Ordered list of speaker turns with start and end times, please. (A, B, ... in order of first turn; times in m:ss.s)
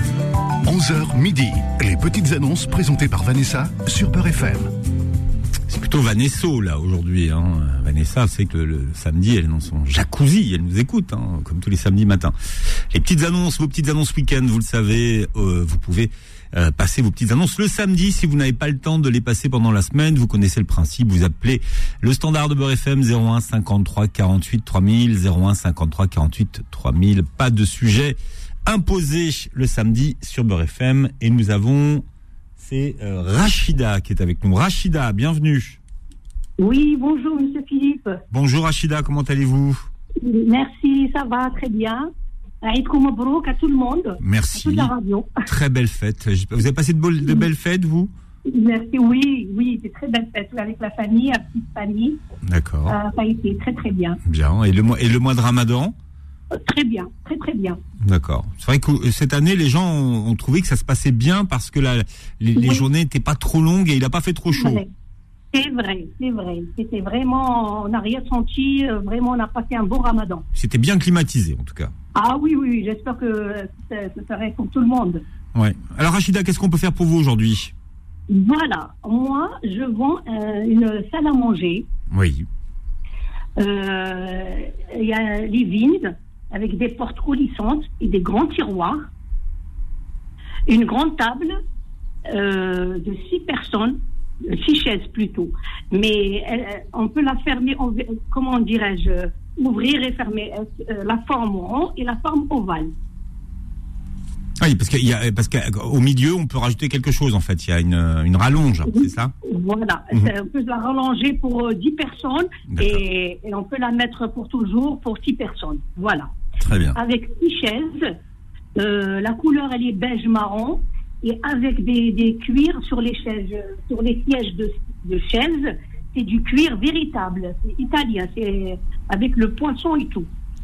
0:00.6-0:04.7 A
0:05.7-0:32.0 B
0:32.6-0:35.8 B
0:36.6-0:38.2 C
0:38.3-0:39.9 B
0:40.2-0:42.1 C
0:42.6-0:45.4 C
0:44.2-0:44.9 B
0:45.5-0:48.1 B
0:48.5-0:52.2 C
0:52.4-0:53.0 B
0:52.9-0:54.2 C
0:54.3-0:56.0 B
0:56.6-0:57.8 C
0:58.0-1:04.8 B
1:02.6-1:02.9 C
1:04.5-1:04.9 C
1:05.5-1:10.4 C
1:10.6-1:11.9 B
1:12.2-1:15.2 C
1:15.6-1:17.7 B
1:18.3-1:21.9 C
1:22.1-1:22.5 B
1:23.6-1:29.1 C
1:30.7-1:31.6 C
1:32.3-1:34.0 C
1:34.5-1:42.9 C
1:44.6-1:49.3 B
1:48.9-1:56.3 C
1:52.7-1:53.0 B
1:56.6-1:57.0 B
1:57.0-1:58.1 C
1:58.8-2:10.3 C